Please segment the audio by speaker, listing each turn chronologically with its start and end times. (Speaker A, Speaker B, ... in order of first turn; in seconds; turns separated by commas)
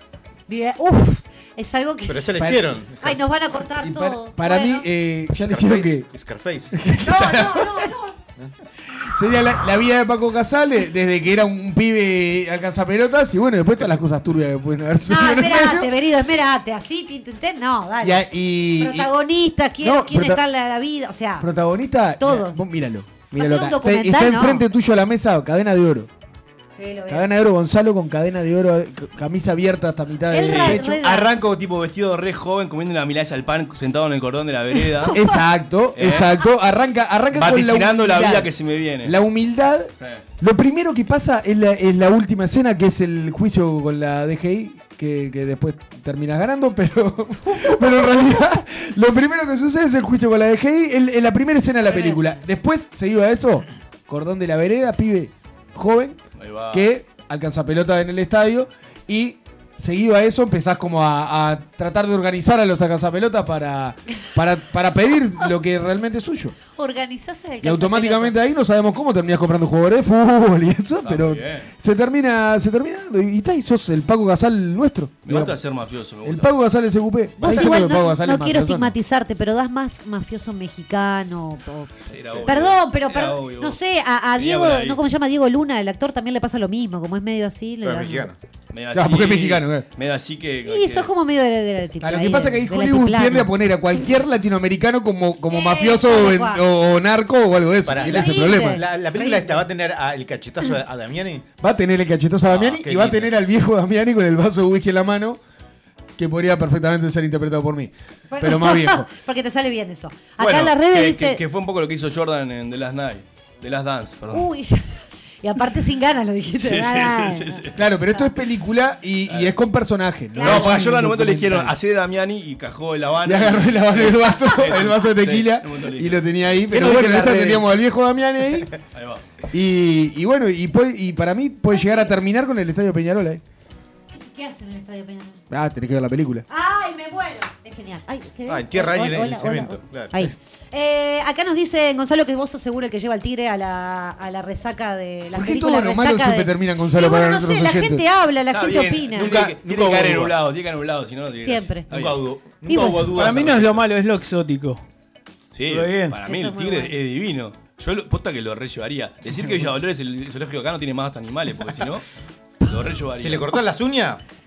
Speaker A: 0.5-4.9, Speaker B: 2.1-3.2, Speaker C: 2.4-2.6, Speaker C: 3.8-6.1, Speaker B: 5.4-6.8, Speaker C: 6.7-7.9, Speaker A: 7.0-8.2, Speaker C: 9.1-15.9, Speaker A: 15.1-18.3, Speaker C: 18.0-19.1, Speaker A: 18.8-21.5, Speaker C: 19.8-20.4, Speaker C: 21.4-26.1, Speaker A: 22.2-22.6, Speaker A: 23.3-24.6, Speaker A: 26.8-27.3, Speaker C: 27.1-31.0, Speaker A: 30.3-31.3, Speaker D: 30.4-35.2, Speaker A: 34.7-35.4, Speaker C: 35.1-38.5, Speaker D: 36.0-36.4, Speaker D: 37.3-39.2, Speaker C: 39.0-56.2, Speaker A: 51.9-52.3, Speaker D: 56.4-56.9, Speaker C: 56.7-66.6, Speaker A: 66.8-68.3, Speaker C: 67.6-75.6, Speaker D: 71.0-71.7, Speaker D: 75.2-76.5, Speaker C: 76.2-79.0, Speaker B: 77.4-77.7, Speaker A: 77.4-81.9, Speaker D: 82.1-83.8, Speaker A: 82.5-88.2, Speaker D: 84.3-85.0, Speaker B: 87.8-88.4, Speaker D: 88.7-91.1, Speaker C: 88.9-89.9, Speaker A: 90.7-93.5, Speaker C: 92.0-98.8, Speaker A: 95.5-96.6, Speaker B: 97.9-101.5, Speaker A: 98.0-99.6, Speaker C: 101.6-105.4, Speaker B: 102.5-103.3, Speaker C: 106.2-109.1, Speaker A: 108.3-111.4, Speaker D: 110.4-114.5, Speaker A: 114.3-114.9, Speaker A: 115.4-118.3, Speaker D: 116.5-117.8, Speaker C: 117.8-121.8, Speaker D: 119.3-119.5, Speaker A: 120.3-120.7, Speaker D: 120.4-126.6, Speaker C: 123.2-128.7, Speaker B: 126.7-127.7, Speaker D: 128.9-129.2, Speaker C: 129.5-133.4, Speaker A: 131.7-132.1, Speaker A: 134.1-135.4, Speaker C: 135.5-136.5, Speaker A: 136.5-149.4, Speaker B: 138.5-140.3, Speaker C: 145.3-148.1, Speaker D: 148.5-152.2, Speaker B: 149.1-150.3, Speaker A: 151.4-151.9, Speaker B: 151.9-153.8, Speaker A: 152.7-153.2, Speaker E: 152.7-154.8, Speaker D: 155.5-162.1, Speaker E: 155.7-156.2, Speaker A: 156.2-156.9, Speaker D: 162.6-163.6, Speaker B: 163.2-164.2